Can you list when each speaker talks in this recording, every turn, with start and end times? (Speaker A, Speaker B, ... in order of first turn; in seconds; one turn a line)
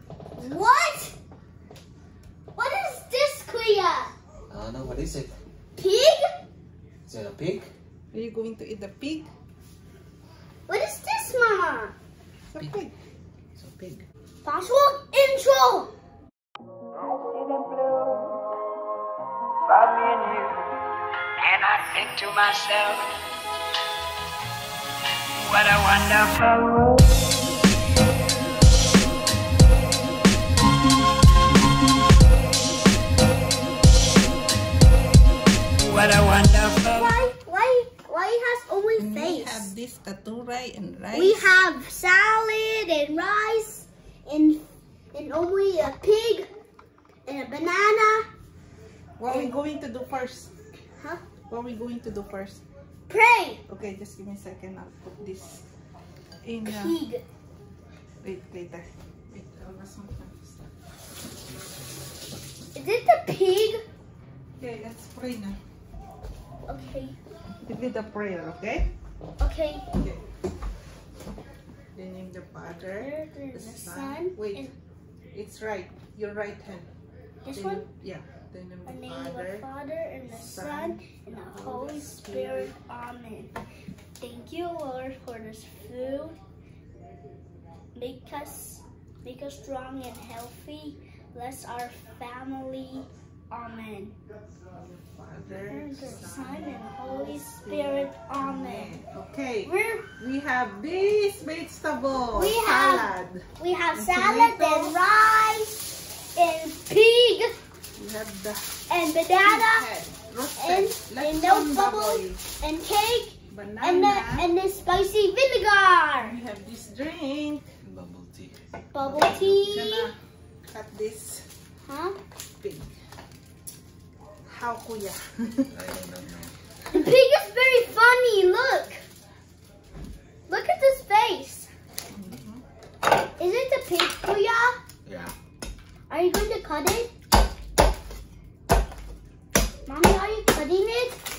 Speaker A: 0.4-1.1
Speaker A: 2.6-4.1
Speaker B: 4.5-5.3
Speaker A: 5.8-6.3
Speaker B: 7.1-7.7
Speaker C: 8.1-9.3
Speaker A: 10.7-11.9
Speaker C: 12.5-12.9
Speaker B: 13.6-14.1
Speaker A: 14.4-15.9
Speaker D: 16.9-18.3
Speaker D: 19.7-20.6
Speaker D: 21.4-23.1
Speaker D: 25.4-27.0
Speaker D: 35.8-37.2
Speaker A: 36.9-39.7
Speaker C: 39.0-41.5
Speaker A: 41.1-46.5
Speaker A: 47.3-48.3
Speaker C: 49.2-50.5
Speaker A: 49.3-49.5
Speaker C: 51.5-52.6
Speaker A: 53.1-53.6
Speaker C: 53.7-55.6
Speaker C: 56.4-57.0
Speaker A: 56.6-57.2
Speaker C: 58.2-60.6
Speaker A: 62.8-63.8
Speaker C: 64.6-65.6
Speaker A: 66.7-67.2
Speaker C: 67.6-68.9
Speaker A: 69.4-69.9
Speaker C: 70.0-70.2
Speaker C: 72.0-74.7
Speaker A: 73.0-74.7
Speaker C: 75.3-76.9
Speaker A: 77.5-77.8
Speaker C: 77.5-79.7
Speaker A: 78.9-83.5
Speaker C: 80.3-82.7
Speaker A: 84.2-86.4
Speaker A: 88.0-94.2
Speaker C: 94.8-105.0
Speaker A: 95.7-98.9
Speaker A: 99.7-100.1
Speaker A: 102.3-105.8
Speaker A: 106.4-107.6
Speaker C: 108.0-108.7
Speaker A: 108.9-109.9
Speaker C: 109.5-112.4
Speaker A: 110.6-116.4
Speaker C: 113.5-114.5
Speaker C: 116.2-117.6
Speaker B: 117.8-119.7
Speaker A: 118.9-120.1
Speaker C: 119.6-120.2
Speaker C: 120.7-121.5
Speaker A: 121.9-122.2
Speaker C: 122.6-122.9
Speaker C: 124.5-125.7
Speaker B: 125.7-126.5
Speaker A: 126.9-129.0
Speaker A: 130.5-131.7
Speaker C: 132.1-132.6
Speaker A: 133.4-134.8
Speaker B: 135.0-135.3
Speaker A: 136.1-137.1
Speaker A: 139.9-141.2